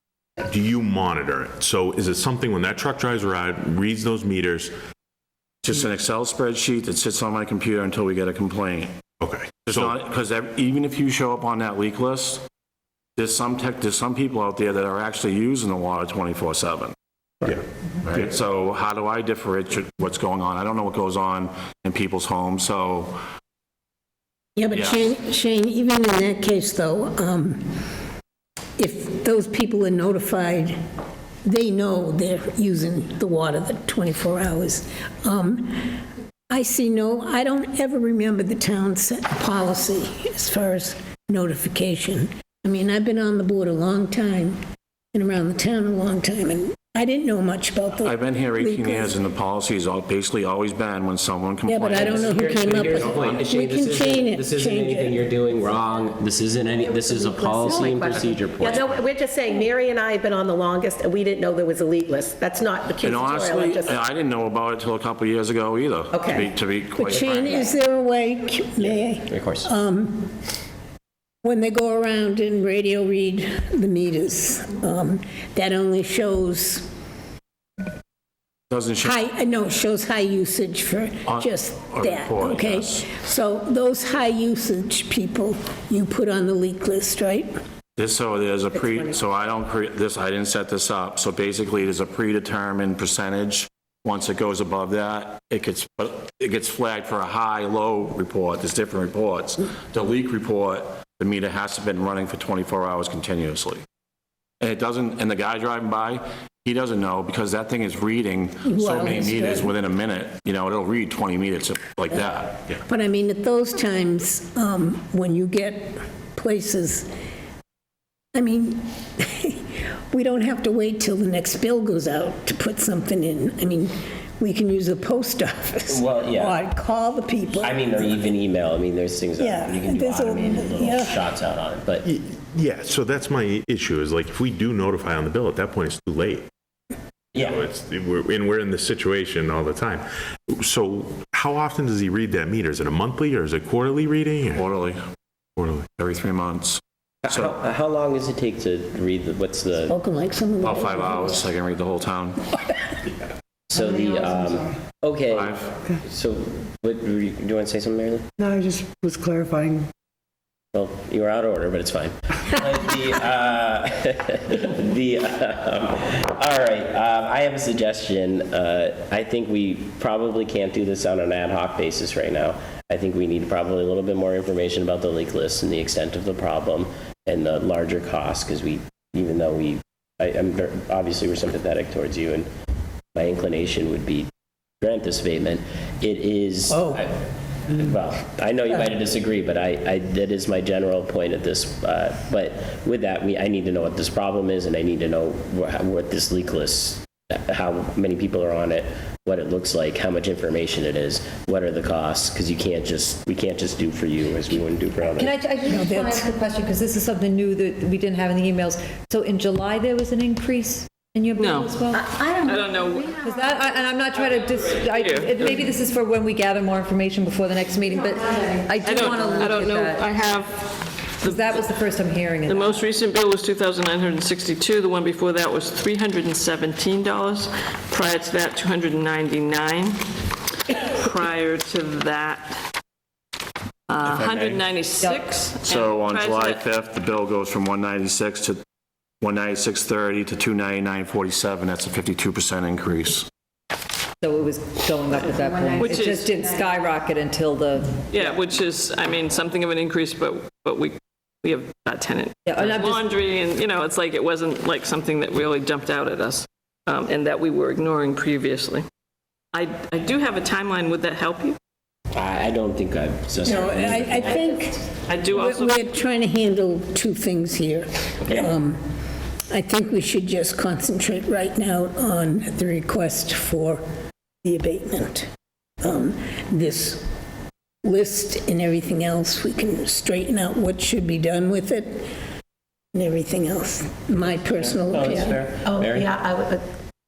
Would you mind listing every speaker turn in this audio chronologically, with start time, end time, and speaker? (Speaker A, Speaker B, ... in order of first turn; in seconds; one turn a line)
Speaker A: 0.4-4.7
Speaker B: 5.6-9.0
Speaker A: 9.2-9.9
Speaker B: 9.7-12.4
Speaker B: 13.2-16.9
Speaker B: 18.0-23.2
Speaker C: 24.6-27.6
Speaker C: 28.8-30.8
Speaker C: 31.4-35.9
Speaker C: 36.5-44.6
Speaker C: 45.1-49.2
Speaker B: 48.0-53.4
Speaker C: 51.6-55.2
Speaker D: 51.9-59.0
Speaker E: 56.8-64.0
Speaker B: 63.0-67.7
Speaker E: 66.1-66.5
Speaker C: 67.0-70.3
Speaker D: 68.8-69.7
Speaker C: 71.4-76.9
Speaker B: 78.7-79.2
Speaker C: 79.0-87.5
Speaker B: 81.3-83.0
Speaker B: 88.0-103.8
Speaker B: 104.6-112.8
Speaker C: 108.9-109.7
Speaker C: 112.8-117.1
Speaker C: 118.3-128.0
Speaker D: 125.9-126.6
Speaker D: 127.6-132.1
Speaker C: 129.4-131.3
Speaker A: 132.0-136.5
Speaker D: 137.3-137.6
Speaker A: 137.3-144.6
Speaker B: 144.5-145.0
Speaker A: 145.6-145.9
Speaker B: 146.0-147.5
Speaker D: 147.2-149.9
Speaker C: 149.9-151.4
Speaker B: 150.6-152.4
Speaker D: 153.7-158.2
Speaker F: 153.8-154.6
Speaker B: 155.3-155.7
Speaker F: 158.4-159.9
Speaker D: 160.7-182.5
Speaker D: 183.1-184.3
Speaker D: 184.8-205.4
Speaker C: 186.7-187.0
Speaker G: 205.1-220.1
Speaker C: 205.7-206.3
Speaker H: 211.4-213.4
Speaker H: 214.9-215.6
Speaker H: 218.8-221.6
Speaker G: 221.2-222.9
Speaker H: 222.5-232.7
Speaker H: 233.9-236.6
Speaker B: 234.1-234.6
Speaker G: 234.9-235.3
Speaker B: 235.7-238.6
Speaker B: 239.2-243.3
Speaker G: 244.2-248.3
Speaker H: 245.7-246.3
Speaker H: 248.1-258.9
Speaker G: 252.4-253.2
Speaker H: 259.5-261.6
Speaker D: 262.1-264.4
Speaker C: 263.4-268.8
Speaker H: 265.1-265.8
Speaker C: 269.5-273.8
Speaker C: 274.4-275.3
Speaker C: 275.8-277.0
Speaker C: 277.8-282.1
Speaker C: 282.9-285.4
Speaker D: 284.4-286.1
Speaker E: 285.6-286.6